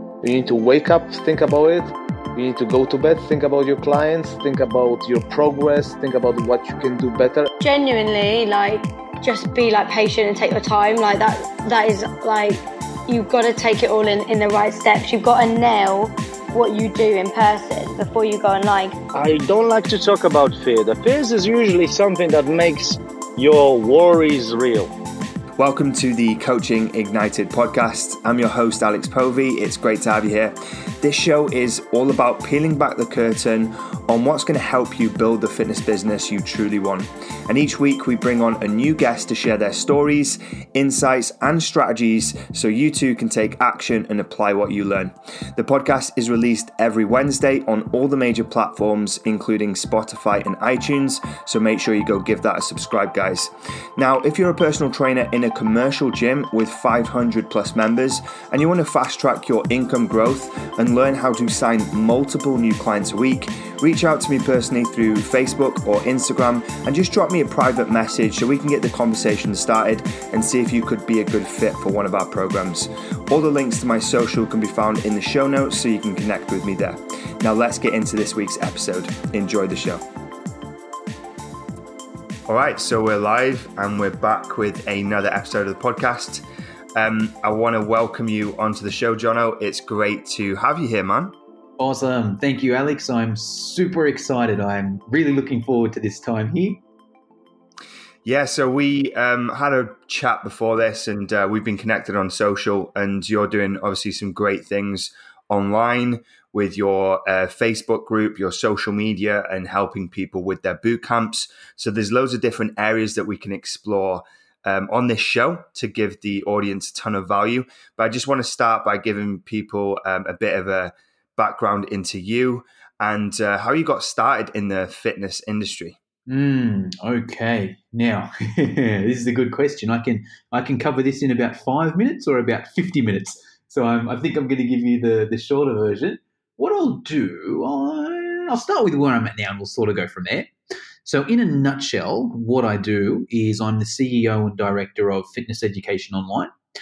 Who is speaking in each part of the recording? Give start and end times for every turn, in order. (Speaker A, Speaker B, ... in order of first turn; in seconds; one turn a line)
Speaker A: 0.2-7.5
Speaker B: 7.6-19.0
Speaker C: 19.1-24.9
Speaker D: 25.6-80.0
Speaker D: 82.5-91.4
Speaker E: 91.8-96.8
Speaker D: 98.2-126.0
Speaker E: 126.3-140.5
Speaker E: 141.1-146.5